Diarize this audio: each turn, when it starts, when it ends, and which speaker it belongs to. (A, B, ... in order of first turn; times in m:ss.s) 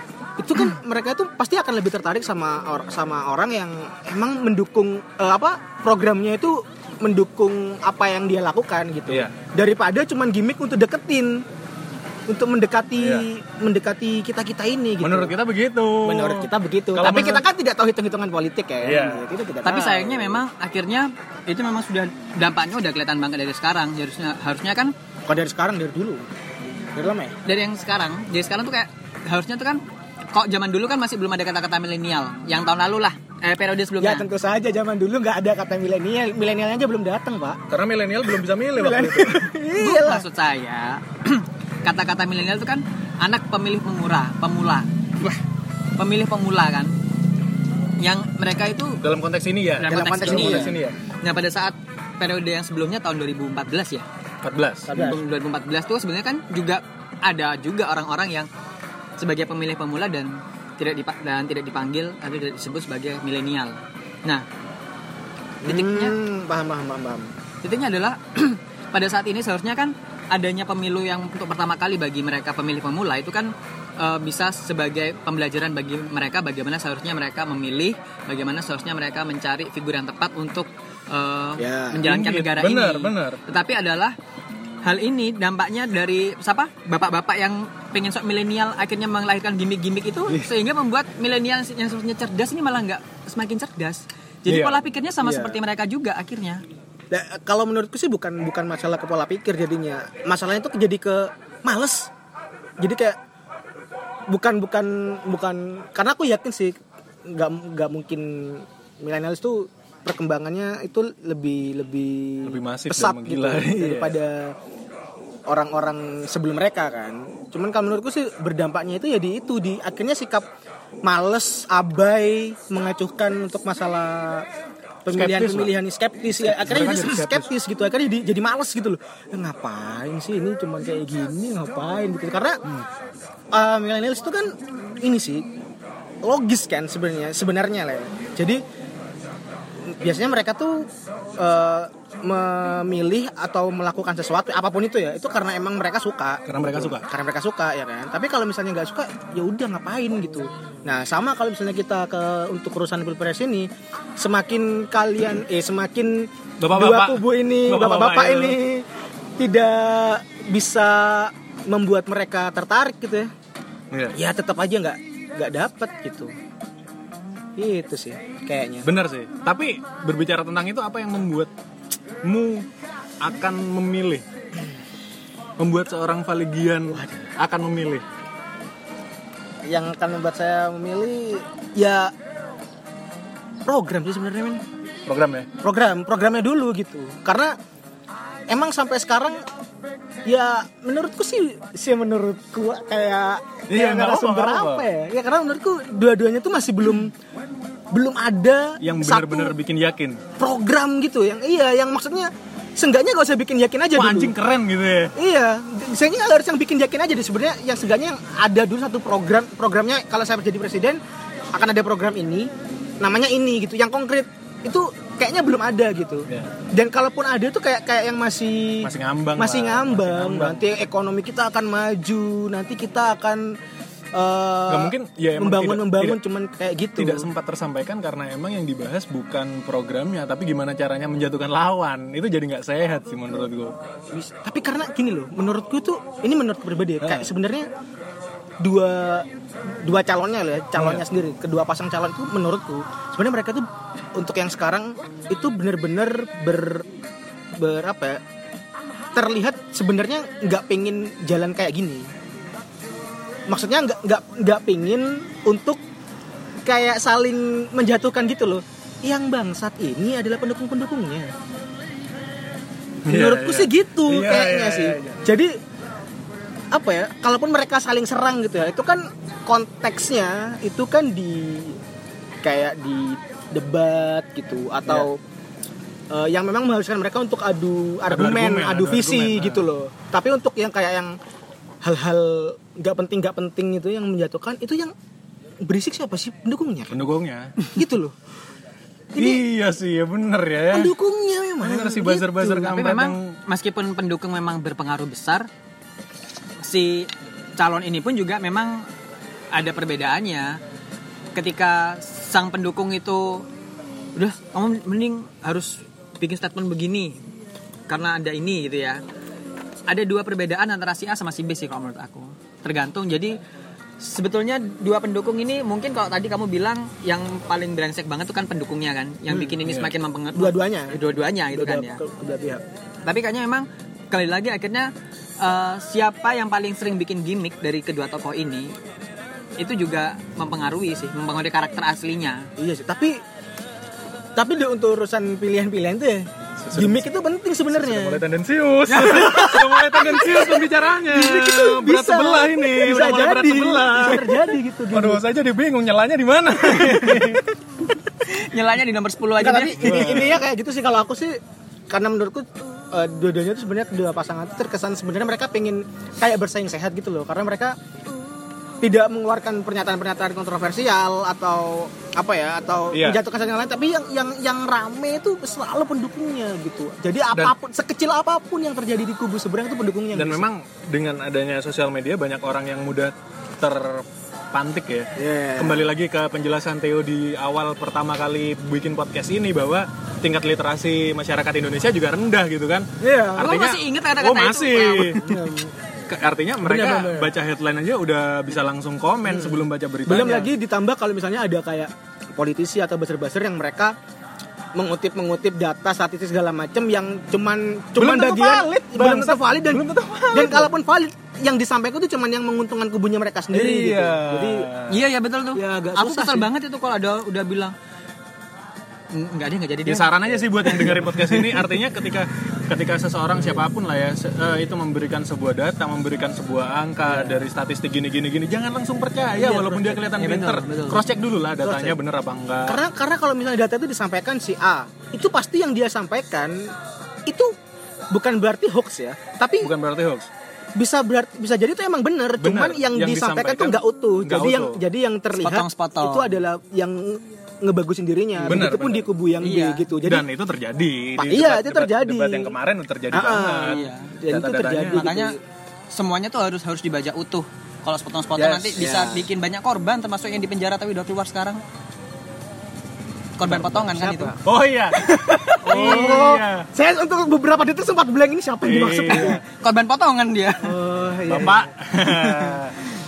0:00.4-0:11.4 A
0:12.3-0:15.3 A
0:13.0-0:13.2 B
0:15.0-0:17.4 B
0:16.0-0:20.0 A
0:18.8-0:20.4 B
0:19.6-0:24.9 C
0:25.3-0:26.3 A
0:26.9-0:27.4 A
0:27.4-0:29.8 C
0:30.3-0:34.2 C
0:34.0-0:37.6 A
0:37.7-0:39.5 B
0:38.7-0:40.2 A
0:39.8-0:44.9 C
0:46.0-0:46.9 C
0:48.0-0:49.0 C
0:49.0-0:51.0 B
0:49.8-0:54.0 C
0:49.8-0:50.9 A
0:54.4-0:54.9 B
0:54.9-0:55.2 A
0:54.9-0:58.5 C
0:59.2-1:04.4 C
1:05.6-1:07.3 A
1:05.6-1:06.2 C
1:07.6-1:24.2 C
1:21.6-1:22.0 A
1:22.0-1:23.4 B
1:24.8-1:36.6 C
1:34.5-1:34.8 B
1:35.2-1:35.6 A
1:37.1-1:42.1 A
1:42.8-1:43.2 A
1:44.3-1:54.6 A
1:52.4-1:54.2 B
1:55.5-2:00.5 A
2:01.0-2:04.4 A
2:05.0-2:12.6 A
2:05.1-2:05.7 B
2:06.4-2:07.5 B
2:13.5-2:15.5 A
2:16.2-2:18.6 A
2:19.8-2:38.8 A
2:26.5-2:27.1 B
2:36.6-2:38.6 B
2:39.4-2:43.3 A
2:43.9-2:44.2 B
2:44.1-2:46.3 A
2:47.6-2:48.9 A
2:48.8-2:51.5 B
2:52.2-2:52.7 B
2:53.2-2:54.2 B
2:55.6-2:58.0 B
2:56.9-2:57.3 A
2:59.6-3:02.1 A
3:03.6-3:04.6 A
3:05.1-3:05.5 B
3:05.6-3:07.6 A
3:08.5-3:09.4 A
3:10.2-3:17.1 A
3:13.7-3:14.8 B
3:17.9-3:19.5 A
3:18.8-3:20.2 B
3:20.4-3:24.3 A
3:23.9-3:25.1 B
3:25.2-3:31.0 A
3:31.5-3:43.6 A
3:38.8-3:40.6 B
3:44.1-3:47.3 A
3:44.7-3:46.2 B
3:47.0-3:53.7 B
3:54.1-3:57.7 A
3:57.0-3:57.3 B
3:58.6-4:06.9 A
4:00.8-4:01.0 B
4:07.6-4:08.2 A
4:09.1-4:12.1 A
4:13.5-4:15.8 A
4:16.6-4:21.3 A
4:23.0-4:25.2 B
4:23.0-4:25.6 A
4:26.7-4:31.8 A
4:32.4-4:35.2 A
4:36.1-4:41.2 A
4:38.1-4:39.7 B
4:41.8-4:44.9 A
4:45.6-4:47.0 A
4:46.9-4:47.6 B
4:47.7-4:48.2 A
4:49.1-4:49.4 A
4:49.2-4:50.9 B
4:50.7-4:52.6 A
4:51.6-4:53.3 B
4:52.4-4:55.5 C
4:56.6-4:58.9 C
4:59.5-5:00.6 C
5:01.3-5:03.4 C
5:04.2-5:07.2 C
5:07.9-5:09.0 C
5:09.9-5:13.4 C
5:14.0-5:22.0 C
5:19.4-5:19.9 B
5:20.3-5:22.6 A
5:23.0-5:28.7 C
5:29.6-5:32.5 C
5:32.6-5:33.2 A
5:34.4-5:38.2 A
5:36.6-5:37.0 B
5:37.7-5:47.4 B
5:38.9-5:45.2 A
5:46.8-5:47.4 A
5:48.1-5:50.1 C
5:49.4-5:51.4 A
5:49.8-5:50.4 B
5:51.9-5:57.8 A
5:58.8-6:10.5 A
6:02.9-6:03.2 B
6:10.1-6:25.3 B
6:15.2-6:15.9 A
6:23.0-6:23.6 A
6:23.4-6:25.2 C
6:25.2-6:25.7 A
6:26.1-6:30.5 B
6:26.6-6:27.3 A
6:29.3-6:33.9 A
6:34.7-6:44.7 A
6:38.0-6:40.7 B
6:43.5-6:45.0 B
6:44.9-6:47.7 C
6:45.5-6:46.5 A
6:49.1-6:51.4 C
6:49.8-7:02.8 B
6:59.4-7:00.0 A
7:00.1-7:01.0 C
7:01.6-7:02.0 A
7:02.6-7:06.7 A
7:07.3-7:07.5 A
7:08.1-7:09.7 A
7:09.6-7:10.3 B
7:10.8-7:20.2 A
7:12.4-7:14.8 B
7:15.4-7:16.3 C
7:18.4-7:19.1 B
7:19.4-7:19.9 C
7:20.0-7:25.1 B
7:21.2-7:22.6 A
7:23.1-7:25.4 A
7:23.6-7:24.1 C
7:24.9-7:25.3 C
7:25.9-7:31.6 C
7:28.4-7:29.0 B
7:28.8-7:29.2 A
7:33.4-7:34.4 C
7:33.8-7:34.4 A
7:34.4-7:36.7 B
7:34.9-7:39.4 A
7:38.6-7:39.4 B
7:39.1-7:40.8 C
7:40.6-7:42.6 A
7:41.3-7:42.8 B